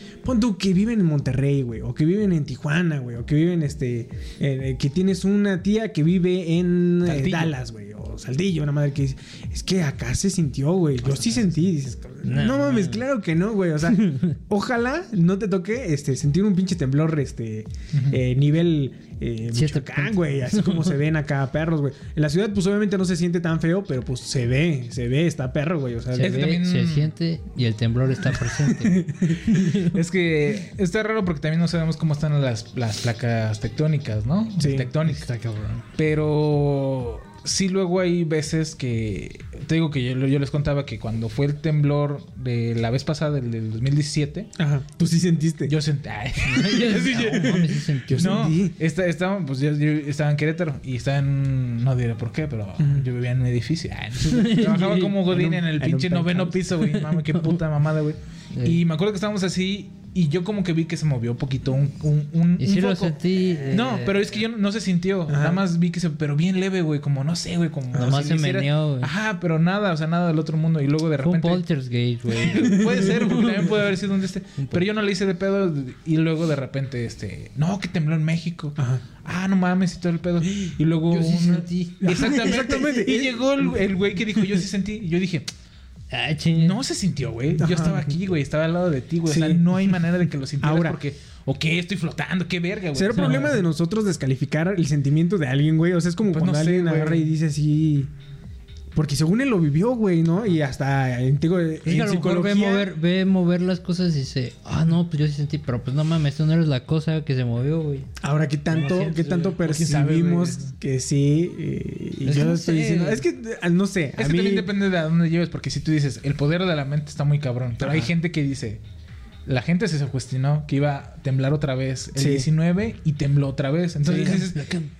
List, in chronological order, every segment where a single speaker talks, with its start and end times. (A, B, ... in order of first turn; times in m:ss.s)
0:00.2-0:26.4 A
0:07.0-0:07.5 B
0:11.0-0:12.2 B
0:12.2-0:13.1 C
0:13.9-0:14.4 C
0:17.9-0:18.2 B
0:19.5-0:21.0 C
0:26.1-0:30.0 C
0:26.2-0:27.1 B
0:28.6-0:29.4 A
0:29.6-0:35.3 B
0:34.6-0:34.9 A
0:35.0-0:35.8 C
0:36.0-0:44.5 B
0:44.6-0:45.8 A
0:45.6-1:11.6 B
0:46.4-0:48.5 C
0:48.1-0:48.8 A
0:52.8-0:53.0 A
0:54.2-0:55.1 C
0:55.1-0:56.8 A
0:58.5-0:58.8 C
1:02.6-1:04.3 C
1:05.3-1:05.6 A
1:07.9-1:08.2 A
1:07.9-1:09.1 C
1:11.2-1:13.7 C
1:12.3-1:25.5 B
1:14.6-1:14.8 C
1:18.8-1:19.0 A
1:21.1-1:22.7 C
1:22.0-1:23.8 A
1:26.1-1:26.8 C
1:26.6-1:33.6 B
1:27.6-1:28.1 A
1:29.2-1:29.6 A
1:30.6-1:31.0 A
1:32.9-1:38.1 A
1:33.1-1:33.6 C
1:36.2-1:37.3 B
1:38.9-1:42.9 A
1:41.8-1:48.1 C
1:48.2-1:54.7 A
1:48.7-1:50.7 B
1:52.2-1:53.2 C
1:54.2-1:58.8 B
1:57.8-1:58.1 A
1:59.4-2:04.6 B
2:02.1-2:02.5 A
2:04.0-2:04.6 A
2:04.1-2:04.9 C